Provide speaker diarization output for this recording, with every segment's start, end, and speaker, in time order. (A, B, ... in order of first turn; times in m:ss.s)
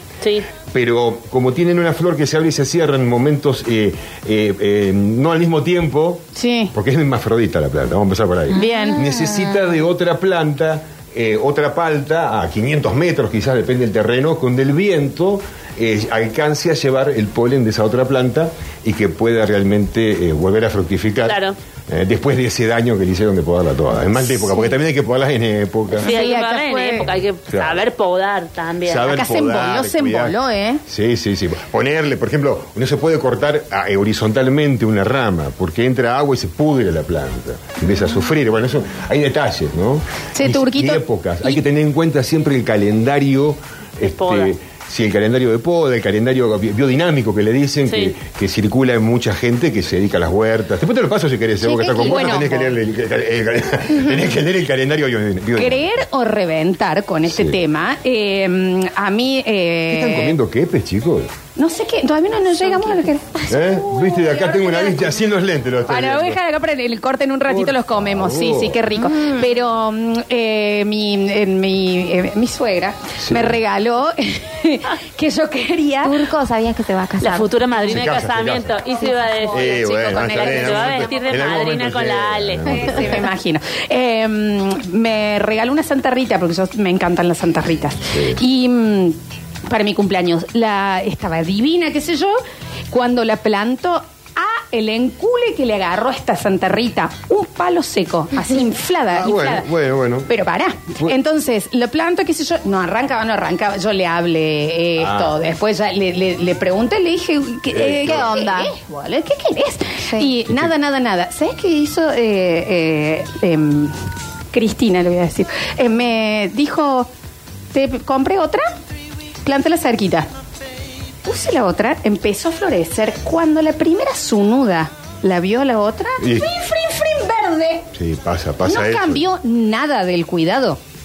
0:00.7-0:21.4 A
0:06.3-0:06.7 B
0:08.5-0:09.0 B
0:08.5-0:09.5 C
0:21.2-0:21.6 D
0:21.9-0:26.1 A
0:26.0-0:27.1 B
0:26.0-0:29.0 D
0:27.5-0:27.8 A
0:28.8-0:30.4 A
0:29.0-0:30.8 B
0:30.9-0:55.9 A
0:40.3-0:41.6 B
0:44.0-0:44.5 D
0:47.9-0:48.1 D
0:51.6-0:52.5 C
0:52.0-0:52.7 B
0:55.5-1:00.4 B
0:57.3-0:57.6 A
0:59.9-1:01.3 A
1:01.6-1:05.2 B
1:03.5-1:06.4 A
1:05.9-1:16.3 B
1:07.5-1:08.8 A
1:08.9-1:09.5 C
1:13.2-1:13.6 A
1:16.0-1:18.0 C
1:17.2-1:23.0 D
1:17.9-1:18.8 A
1:19.5-1:21.3 B
1:19.5-1:23.2 A
1:22.6-1:32.4 B
1:32.9-1:39.7 B
1:39.1-1:40.3 A
1:40.2-1:54.0 B
1:45.0-1:45.4 A
1:47.7-1:48.4 A
1:48.0-1:48.7 C
1:54.5-1:57.1 B
1:57.7-1:58.7 B
1:59.4-2:00.3 B
2:01.2-2:07.9 B
2:06.2-2:06.5 A
2:07.9-2:09.2 A
2:08.6-2:10.8 B